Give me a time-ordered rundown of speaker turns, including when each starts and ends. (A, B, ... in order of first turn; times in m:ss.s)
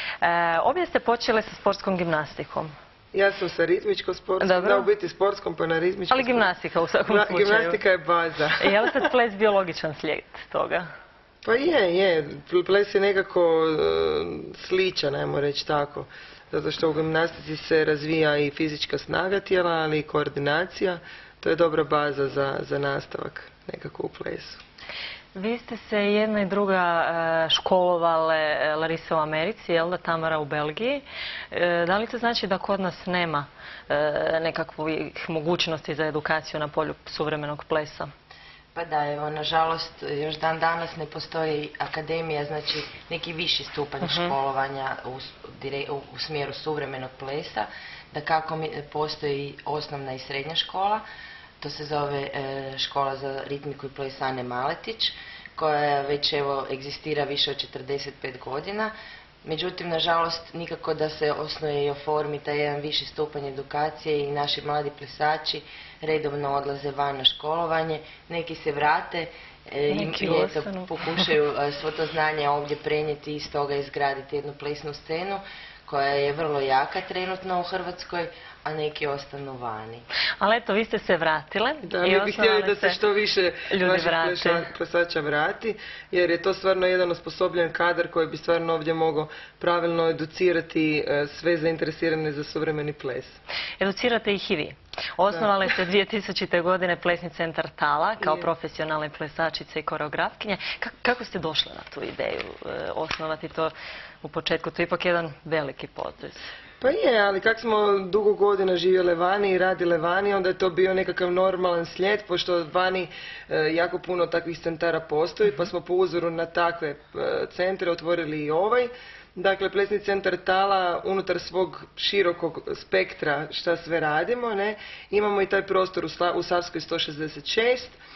0:00.2-0:02.7 A
0:03.1-0:06.5 B
0:04.4-0:04.9 A
0:06.1-0:07.8 A
0:07.1-0:09.0 B
0:08.6-0:10.9 A
0:11.4-0:24.6 B
0:25.3-0:38.1 A
0:38.7-0:51.0 C
0:44.0-0:44.3 A
0:51.6-0:58.9 C
0:59.4-1:20.0 C
1:09.9-1:11.3 A
1:20.4-1:23.0 A
1:21.8-1:33.4 B
1:23.7-1:24.7 A
1:33.8-1:46.5 A
1:38.2-1:38.5 B
1:46.8-2:08.0 B